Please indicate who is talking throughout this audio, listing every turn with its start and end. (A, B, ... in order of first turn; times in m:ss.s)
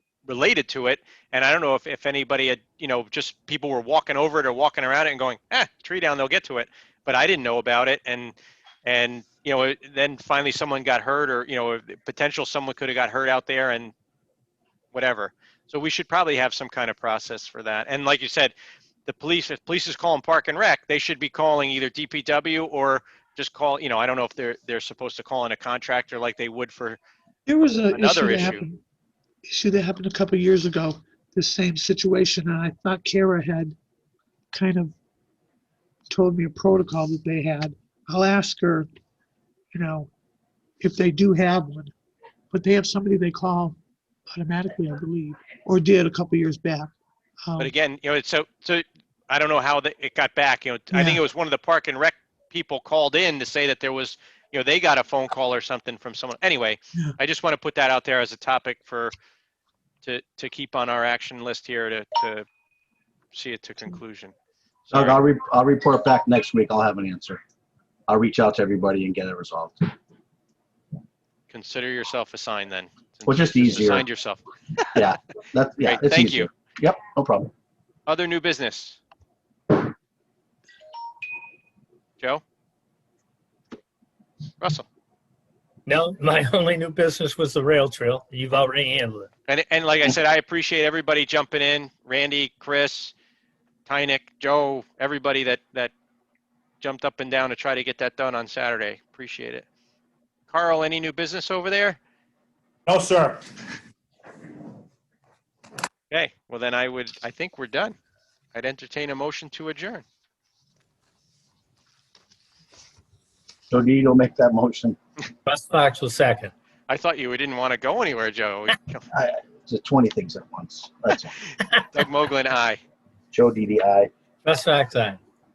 0:00.3-0:13.9 A
0:14.9-0:18.5 A
0:19.0-0:27.0 A
0:27.5-0:28.8 B
0:27.9-0:28.6 A
0:29.4-0:33.8 B
0:34.5-0:34.9 B
0:36.1-0:38.9 B
0:39.7-0:40.1 B
0:40.8-0:41.9 B
0:42.5-0:43.8 B
0:44.3-0:46.9 B
0:47.4-0:47.7 B
0:47.6-0:59.1 A
0:50.9-0:51.2 B
1:00.0-1:02.5 A
1:03.3-1:04.3 A
1:04.9-1:05.2 A
1:04.9-1:07.4 C
1:08.1-1:09.9 C
1:11.5-1:14.4 A
1:13.3-1:14.1 C
1:14.9-1:17.5 C
1:15.8-1:16.5 A
1:18.1-1:19.0 A
1:24.6-1:24.9 A
1:25.9-1:29.3 D
1:29.5-1:33.1 A
1:33.9-1:35.9 A
1:36.8-1:39.7 A
1:40.5-1:42.0 A
1:46.1-1:48.0 A
1:48.5-1:50.0 A
1:53.7-1:55.0 C
1:55.4-1:56.5 D
1:56.9-1:59.0 A
1:59.1-2:01.3 C
2:01.9-2:02.8 A
2:03.3-2:04.1 C
2:04.4-2:05.2 D